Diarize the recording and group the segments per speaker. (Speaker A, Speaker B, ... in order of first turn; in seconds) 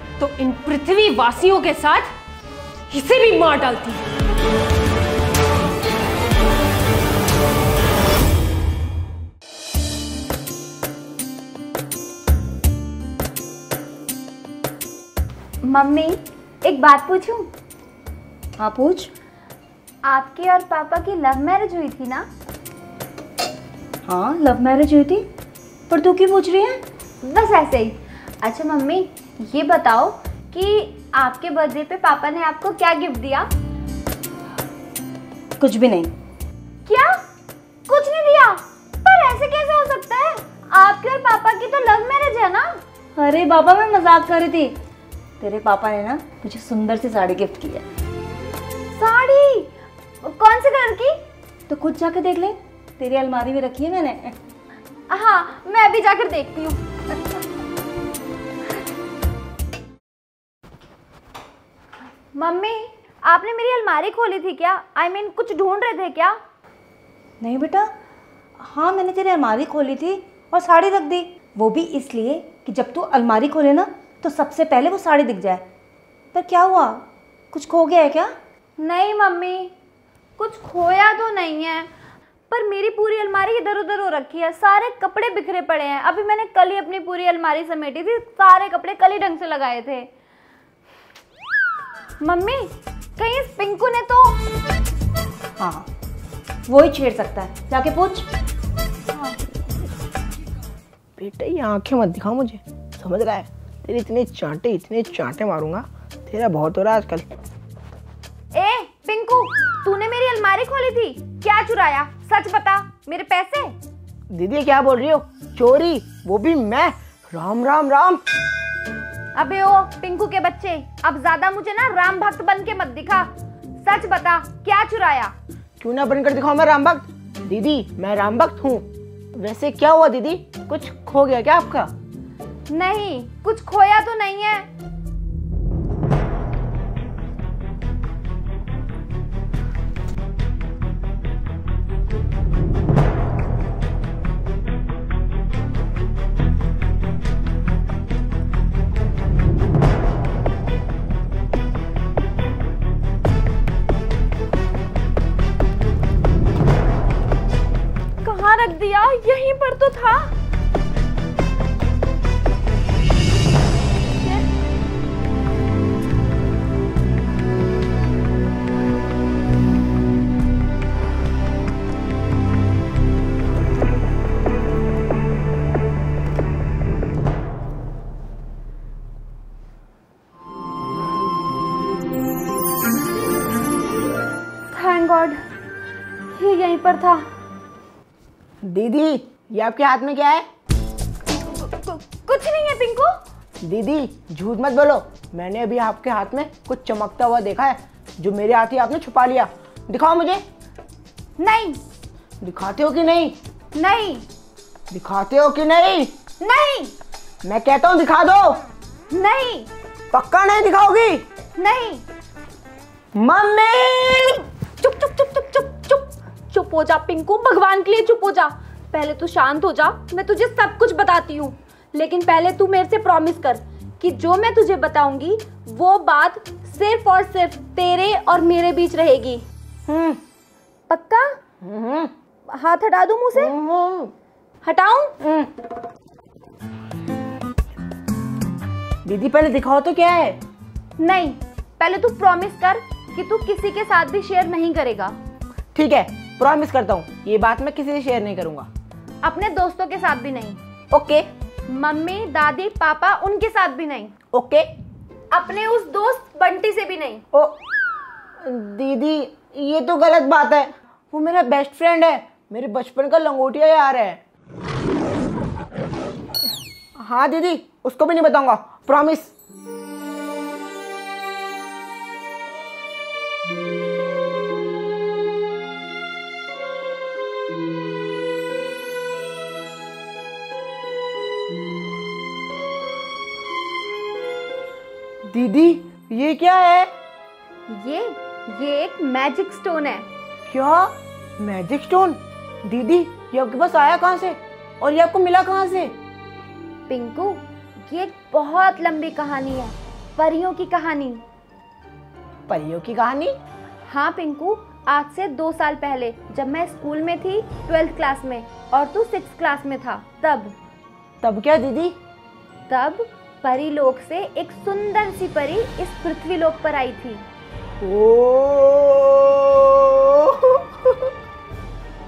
Speaker A: 0.2-2.1, 2.9-4.1
Speaker B: 15.6-17.5, 20.1-22.3, 27.2-33.5, 36.9-37.2, 37.9-42.8, 49.0-51.2, 55.1-56.8, 62.4-66.4, 78.8-79.7, 80.4-81.9, 82.5-90.1, 92.2-94.4, 108.5-113.7, 119.4-123.3, 123.8-125.3, 132.7-134.7, 158.2-160.3, 184.7-185.4, 186.3-187.3, 191.5-193.2, 201.4-201.8, 203.8-204.2, 206.4-206.9, 209.1-209.7, 211.6-212.0, 214.8-229.4, 230.9-231.4, 232.5-233.5, 234.6-235.2, 241.0-245.2, 249.2-250.6, 251.7-254.1, 255.3-257.2, 287.7-290.1, 296.9-301.2, 303.9-310.6, 312.7-317.2
Speaker C: 18.6-19.1, 24.1-25.3, 25.9-26.8, 35.6-36.1, 43.2-44.8, 45.4-47.9, 51.7-54.4, 67.4-67.9, 68.6-75.7, 76.3-78.3, 95.6-95.9, 96.7-98.3
Speaker D: 101.2-107.3, 114.3-118.2, 125.8-131.9, 188.6-190.5, 193.6-200.4, 202.4-203.4, 204.9-206.1, 207.4-208.6, 210.1-211.2, 213.1-214.4, 231.6-232.1, 233.3-234.1, 239.1-240.4, 245.7-248.7, 250.9-251.3, 254.3-254.7, 258.4-264.2, 267.0-269.3, 285.3-286.9, 290.5-295.9, 302.5-303.4, 311.2-311.9, 317.8-321.1